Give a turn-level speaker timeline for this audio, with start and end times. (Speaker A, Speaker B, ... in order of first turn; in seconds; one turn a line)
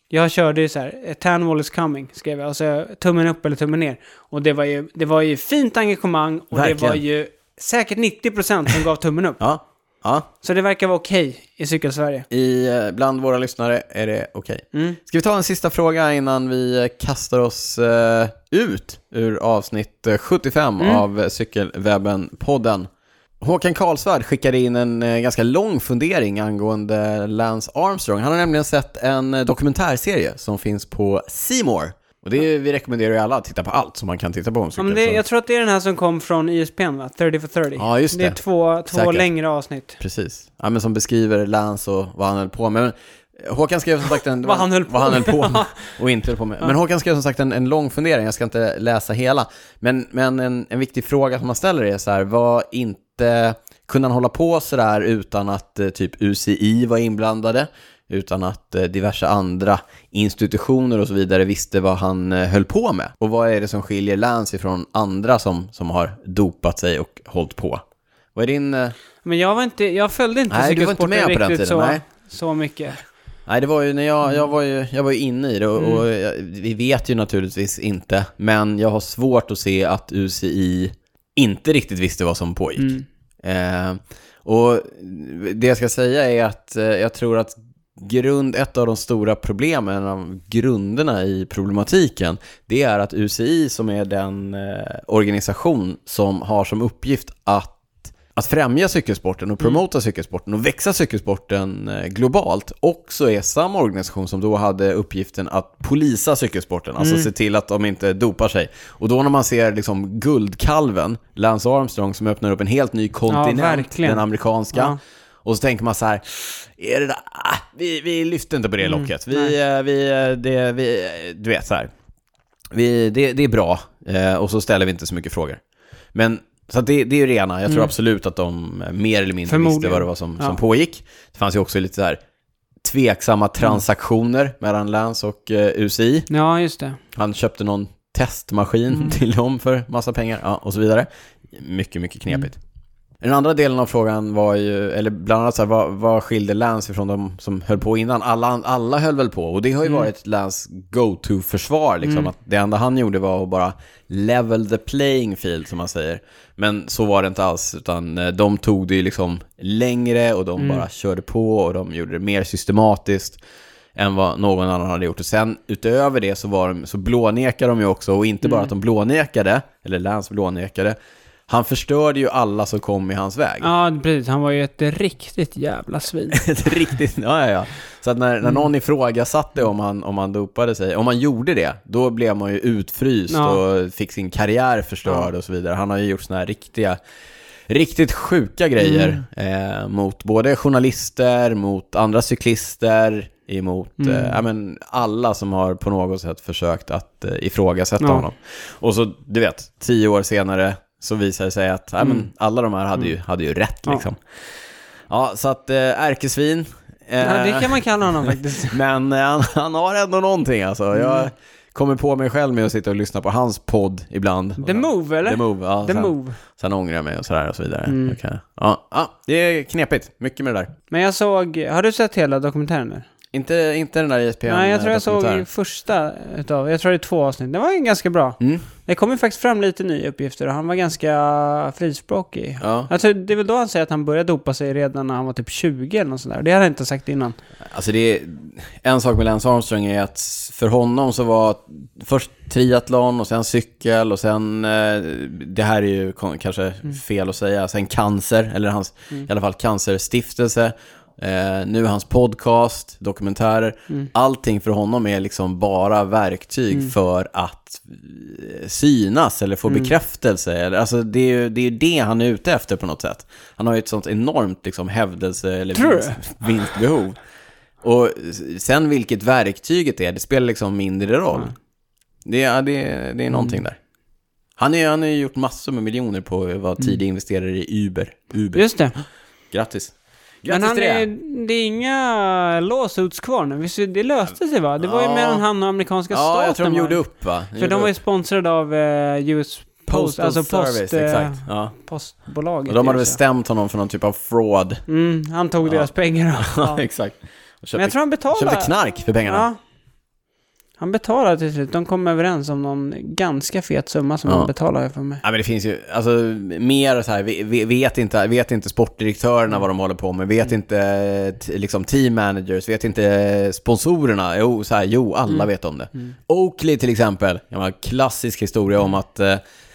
Speaker A: 0.1-9.4
Speaker B: 6.5-7.0
Speaker B: 9.4-10.3
Speaker A: 10.4-12.3
Speaker B: 12.3-22.9
Speaker A: 14.7-15.0
Speaker B: 23.4-35.2
Speaker A: 34.8-40.0
Speaker B: 37.8-38.4
Speaker B: 38.9-39.2
Speaker B: 40.0-67.8
Speaker A: 44.4-45.7
Speaker B: 68.3-69.0
Speaker A: 69.2-73.0
Speaker B: 70.5-72.0
Speaker B: 73.5-121.9
Speaker A: 75.8-76.0
Speaker A: 82.8-83.0
Speaker A: 107.0-107.3
Speaker A: 113.3-115.0
Speaker A: 118.8-119.5
Speaker B: 122.7-125.6
Speaker B: 126.1-132.2
Speaker A: 129.5-130.6
Speaker B: 132.8-136.3
Speaker A: 136.3-137.0
Speaker B: 137.2-142.6
Speaker B: 143.2-163.4
Speaker A: 152.0-152.3
Speaker A: 160.6-160.9
Speaker B: 164.0-171.0
Speaker A: 168.4-168.7
Speaker B: 171.5-173.7
Speaker A: 173.6-176.4
Speaker B: 176.3-187.0
Speaker A: 183.3-183.6
Speaker B: 187.7-204.2
Speaker A: 188.8-189.2
Speaker A: 194.0-194.4
Speaker A: 198.0-198.2
Speaker A: 202.0-202.3
Speaker B: 205.1-220.7
Speaker A: 207.2-208.8
Speaker A: 210.9-211.3
Speaker A: 214.6-216.4
Speaker A: 217.9-218.2
Speaker A: 220.9-223.1
Speaker B: 223.3-225.5
Speaker A: 224.5-237.4
Speaker B: 228.4-228.7
Speaker B: 232.6-232.9
Speaker B: 237.7-267.2
Speaker A: 259.7-259.9
Speaker A: 265.8-266.2
Speaker B: 267.8-271.5
Speaker B: 272.2-273.8
Speaker B: 274.6-278.6
Speaker A: 278.5-278.9
Speaker B: 279.5-281.1
Speaker A: 280.5-287.0
Speaker B: 284.8-285.4
Speaker B: 286.1-287.9
Speaker A: 287.6-293.2
Speaker B: 289.9-291.7
Speaker B: 292.7-294.8
Speaker A: 294.9-296.8
Speaker B: 295.7-299.5
Speaker A: 297.8-299.6
Speaker A: 300.8-305.2
Speaker B: 305.2-319.4